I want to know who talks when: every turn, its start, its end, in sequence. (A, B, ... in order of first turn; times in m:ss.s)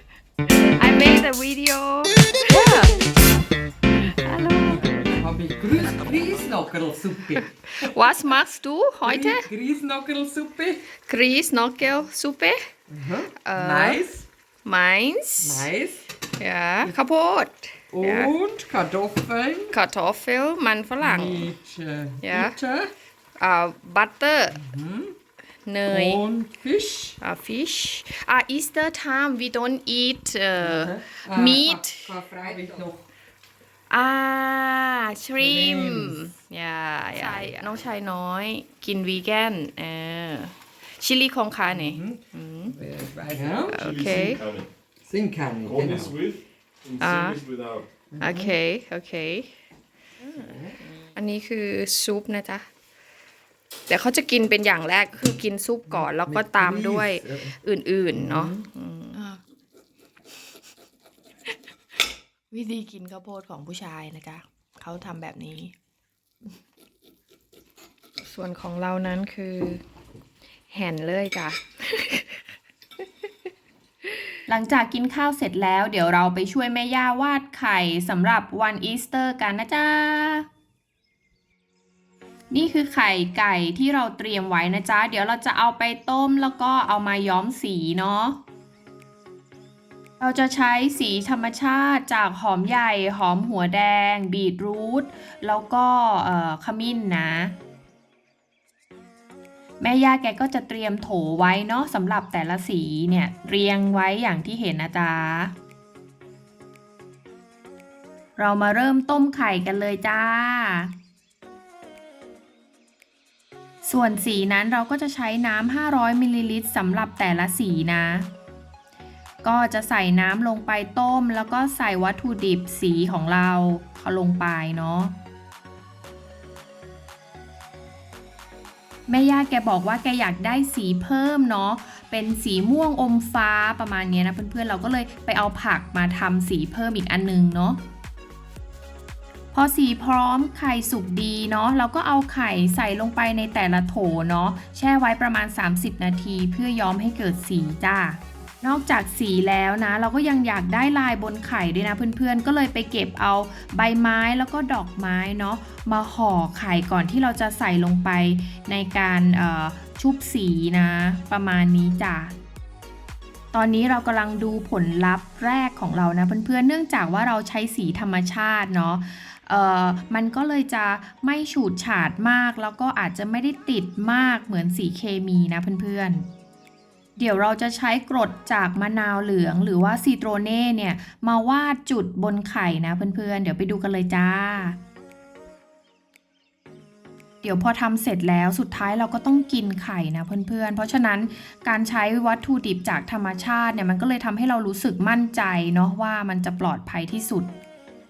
0:00.7-0:03.0 A
0:03.9-0:04.8 A
0:04.6-0:07.9 B
0:07.7-0:09.5 A
0:09.0-0:10.8 B
0:11.0-0:12.7 A
0:12.9-0:14.3 B
0:13.4-0:14.1 A
0:14.6-0:15.7 A
0:15.4-0:16.0 B
0:16.4-0:18.3 A
0:17.9-0:19.8 B
0:19.7-0:21.5 A
0:21.0-0:22.9 B
0:22.2-0:22.6 A
0:23.4-0:24.6 A
0:24.6-0:25.2 B
0:25.7-0:26.2 A
0:25.9-0:27.2 B
0:27.2-0:32.2 A
0:30.6-0:33.0 B
0:33.9-0:42.8 A
0:35.4-0:36.3 B
0:41.7-0:42.2 B
0:42.7-0:43.9 B
0:43.4-0:44.7 C
0:43.7-0:44.4 A
0:45.0-0:46.2 B
0:45.7-0:47.9 C
0:47.0-0:47.4 A
0:48.1-0:48.6 B
0:48.2-0:49.5 A
0:50.4-0:50.8 B
0:51.0-0:52.7 A
0:53.9-0:59.4 A
0:55.9-0:57.6 B
0:58.1-0:58.6 B
1:02.5-1:05.7 A
1:08.2-1:09.8 A
1:10.7-1:12.4 A
1:14.5-1:20.5 A
1:22.5-1:28.4 A
1:30.2-1:37.6 A
1:39.8-1:45.5 A
1:48.4-1:50.9 A
1:53.8-1:58.3 A
1:59.4-2:05.1 A
2:09.1-2:17.8 A
2:19.5-2:42.4 A
2:43.5-2:56.2 A
2:57.2-3:04.8 A
3:07.4-3:17.5 A